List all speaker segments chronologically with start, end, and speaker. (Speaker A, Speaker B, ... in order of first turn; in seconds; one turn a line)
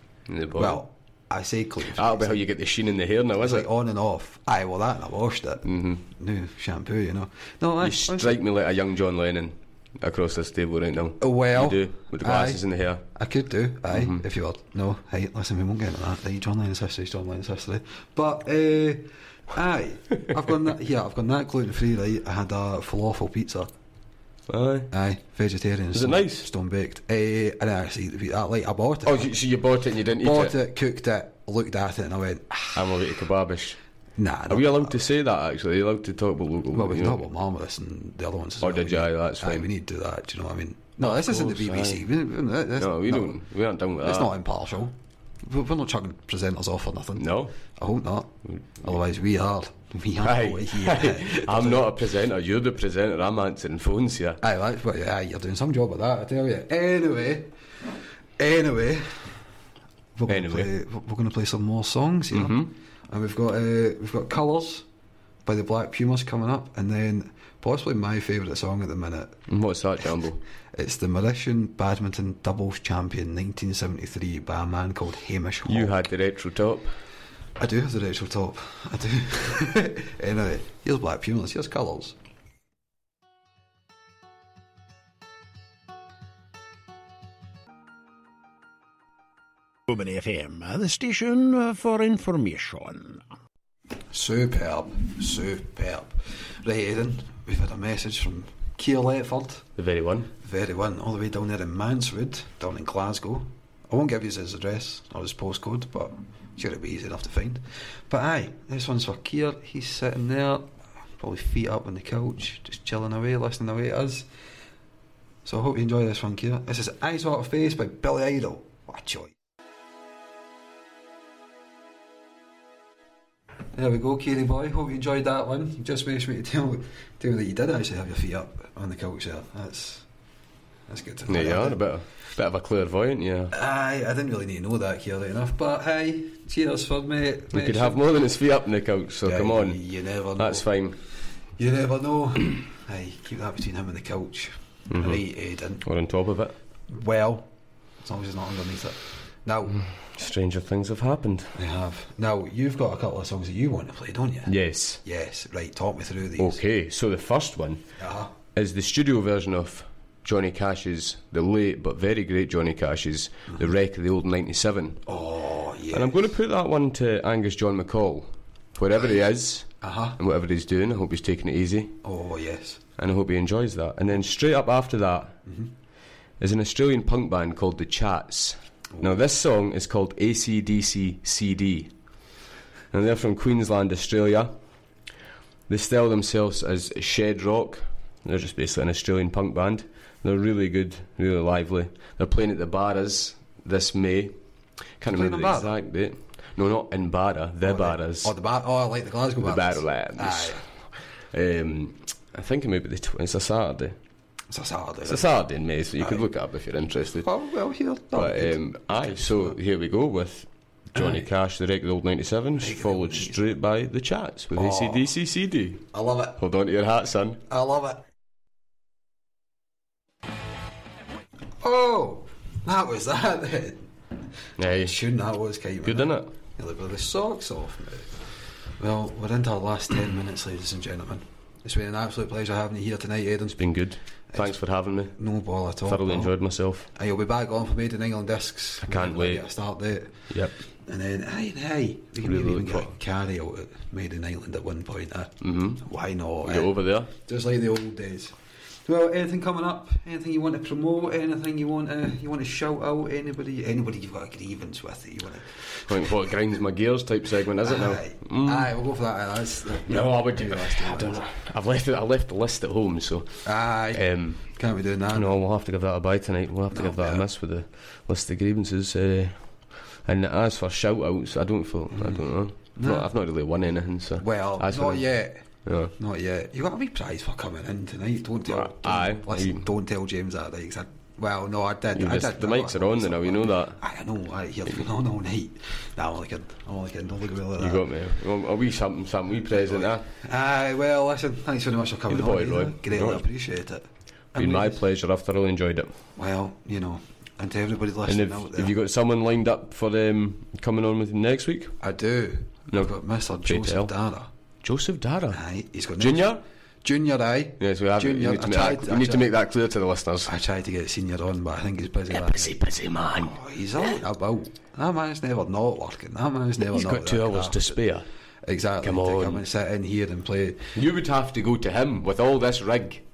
Speaker A: 0.3-0.8
Speaker B: 0.6-2.5
Speaker A: 1.9-3.7
Speaker B: 3.4-8.4
Speaker A: 5.7-6.0
Speaker A: 7.8-13.0
Speaker B: 11.2-12.6
Speaker B: 13.1-23.7
Speaker A: 13.9-14.2
Speaker A: 24.5-24.9
Speaker B: 24.9-29.3
Speaker A: 25.9-26.5
Speaker A: 29.1-30.6
Speaker B: 30.2-32.9
Speaker A: 32.8-33.8
Speaker B: 34.2-35.0
Speaker A: 34.5-37.2
Speaker B: 36.7-43.4
Speaker A: 38.6-39.7
Speaker A: 41.0-42.0
Speaker A: 42.8-44.3
Speaker B: 44.0-51.9
Speaker A: 47.2-47.5
Speaker A: 50.2-54.4
Speaker B: 54.4-57.5
Speaker B: 58.4-59.3
Speaker B: 60.1-64.9
Speaker A: 60.3-60.7
Speaker A: 62.3-62.7
Speaker B: 65.5-69.4
Speaker A: 69.5-70.4
Speaker B: 70.7-76.0
Speaker A: 75.7-76.9
Speaker B: 77.6-82.2
Speaker C: 89.9-93.2
Speaker B: 94.1-99.7
Speaker A: 99.8-100.3
Speaker B: 100.4-114.3
Speaker B: 115.5-119.3
Speaker B: 123.8-130.1
Speaker B: 130.9-131.8
Speaker A: 131.3-133.6
Speaker B: 133.5-138.0
Speaker A: 137.5-139.8
Speaker B: 139.2-140.7
Speaker A: 140.4-141.0
Speaker B: 141.6-145.8
Speaker A: 144.9-145.2
Speaker A: 145.8-146.6
Speaker B: 146.9-147.5
Speaker B: 148.0-149.8
Speaker A: 149.7-151.6
Speaker B: 151.6-154.5
Speaker A: 154.5-155.0
Speaker B: 155.0-156.6
Speaker A: 156.4-157.8
Speaker B: 158.0-158.3
Speaker A: 158.5-165.0
Speaker B: 165.1-166.2
Speaker A: 165.9-172.0
Speaker B: 169.8-170.2
Speaker B: 172.0-172.8
Speaker A: 173.0-175.3
Speaker B: 175.5-175.7
Speaker A: 176.4-181.9
Speaker A: 182.9-184.5
Speaker A: 185.7-194.3
Speaker A: 195.0-198.3
Speaker B: 195.1-195.8
Speaker B: 197.6-200.6
Speaker A: 199.4-200.6
Speaker A: 201.3-204.0
Speaker B: 204.5-205.3
Speaker A: 205.1-207.3
Speaker B: 207.2-209.6
Speaker A: 208.1-215.9
Speaker B: 210.9-211.3
Speaker B: 212.6-213.4
Speaker B: 214.5-215.1
Speaker B: 215.9-216.4
Speaker A: 216.4-217.4
Speaker B: 217.5-218.0
Speaker B: 221.6-223.9
Speaker A: 224.6-224.9
Speaker B: 224.6-228.3
Speaker A: 225.9-226.3
Speaker B: 228.8-233.7
Speaker A: 233.6-235.1
Speaker B: 235.1-236.3
Speaker A: 235.9-236.9
Speaker B: 236.9-240.2
Speaker A: 238.8-239.4
Speaker B: 240.8-256.1
Speaker A: 242.2-242.9
Speaker A: 245.4-245.8
Speaker A: 246.4-247.1
Speaker A: 255.9-258.7
Speaker B: 257.6-261.2
Speaker A: 259.9-263.3
Speaker B: 263.4-265.4
Speaker A: 263.9-264.4
Speaker A: 265.1-269.5
Speaker B: 266.7-267.3
Speaker A: 270.1-275.1
Speaker B: 271.9-273.1
Speaker B: 274.2-275.4
Speaker A: 275.7-275.9
Speaker B: 276.0-287.9
Speaker A: 278.5-279.6
Speaker A: 281.9-283.8
Speaker A: 287.6-290.1
Speaker B: 289.6-294.8
Speaker A: 292.1-293.2
Speaker A: 294.3-295.9
Speaker B: 296.2-298.8
Speaker A: 298.1-301.8
Speaker B: 301.8-304.3
Speaker A: 303.4-303.9
Speaker A: 304.6-305.4
Speaker B: 305.3-309.3
Speaker A: 306.0-306.4
Speaker A: 307.6-310.3
Speaker B: 310.3-312.6
Speaker A: 312.1-313.4
Speaker B: 313.1-317.8
Speaker A: 316.6-318.1
Speaker B: 318.4-320.8
Speaker A: 318.8-319.4
Speaker A: 320.8-323.0